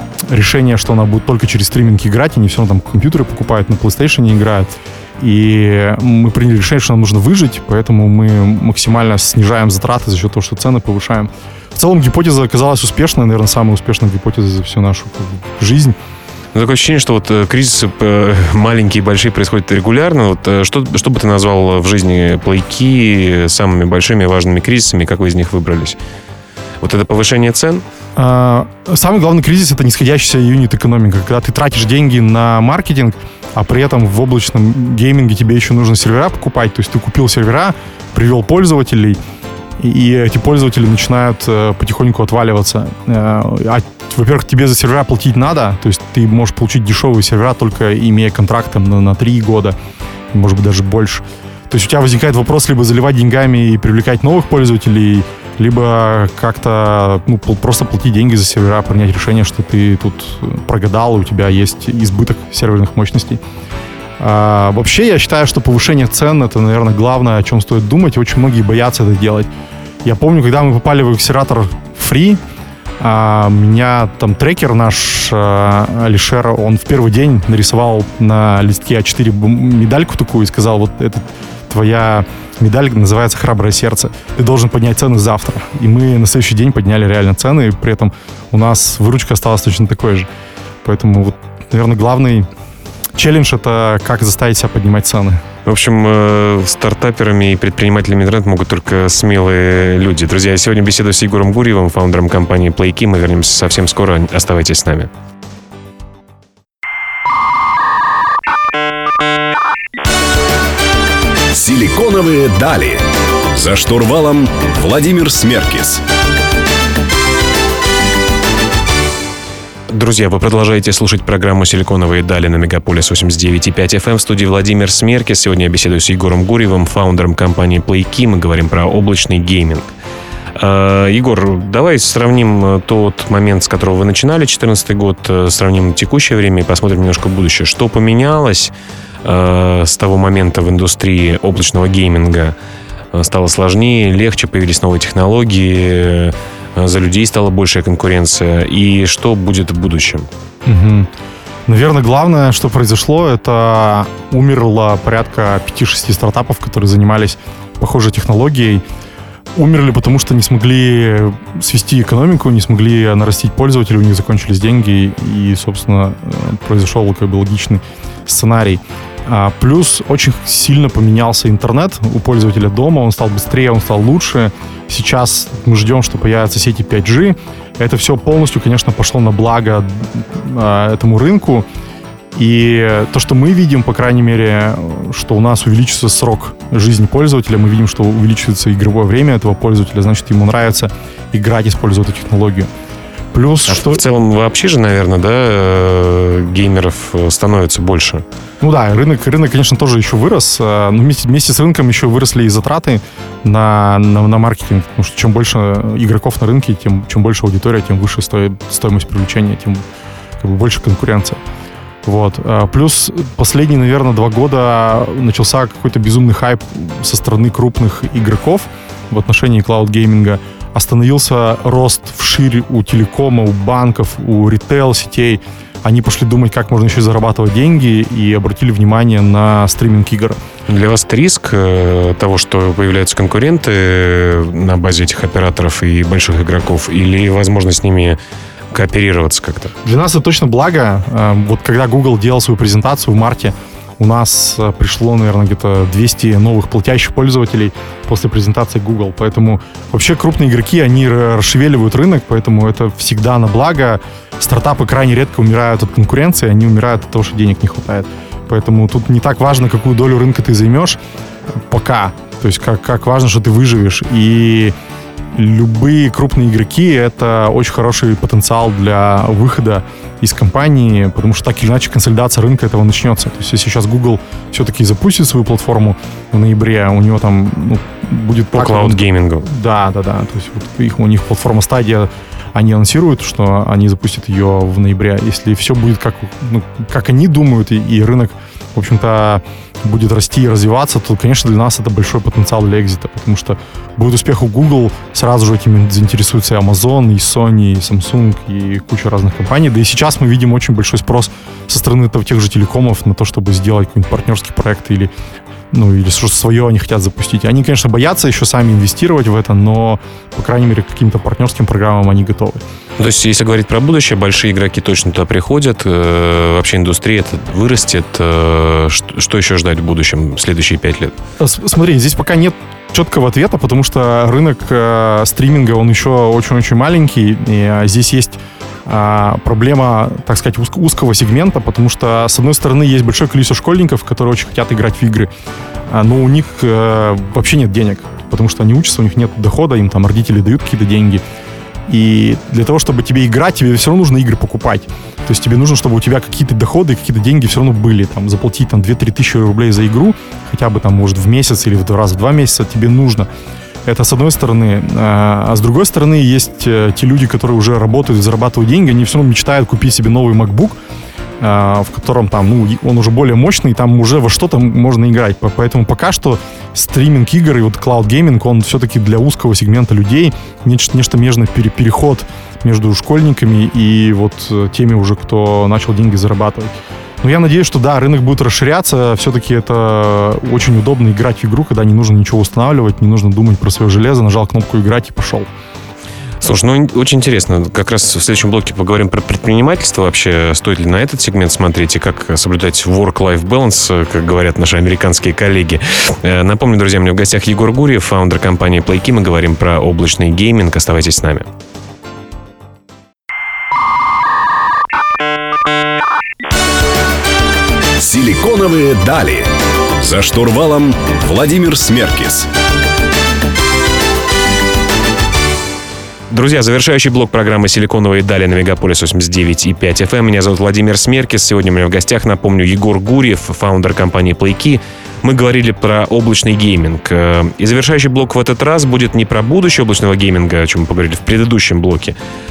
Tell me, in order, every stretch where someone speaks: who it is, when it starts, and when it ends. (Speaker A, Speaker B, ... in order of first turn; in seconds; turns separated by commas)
Speaker A: 0.3-15.9, Speaker B: 16.5-26.0, Speaker B: 26.8-27.8, Speaker A: 28.1-39.2, Speaker A: 39.8-49.8, Speaker A: 50.3-63.4, Speaker A: 64.2-69.5, Speaker A: 70.0-72.4, Speaker A: 73.0-90.3, Speaker A: 90.8-92.5, Speaker A: 93.2-95.4, Speaker B: 95.6-105.1, Speaker C: 111.5-116.0, Speaker B: 119.9-129.9, Speaker B: 130.6-138.7, Speaker B: 139.2-142.5, Speaker B: 143.1-150.3, Speaker A: 150.6-151.1, Speaker A: 151.7-158.8, Speaker A: 159.6-181.7, Speaker A: 182.3-192.7, Speaker A: 193.3-194.0, Speaker B: 193.7-198.2, Speaker A: 198.6-209.8, Speaker A: 210.4-211.4, Speaker A: 212.0-230.4, Speaker B: 230.7-238.2, Speaker B: 238.7-239.7, Speaker A: 239.8-261.0, Speaker A: 261.7-264.7, Speaker A: 265.3-305.1, Speaker B: 278.5-279.4, Speaker A: 305.7-312.6, Speaker B: 313.0-321.1, Speaker A: 321.4-335.3, Speaker A: 335.9-341.2, Speaker A: 341.9-353.3, Speaker A: 353.9-360.8, Speaker A: 361.4-385.5, Speaker B: 386.4-401.5, Speaker C: 408.0-412.5, Speaker B: 416.3-432.1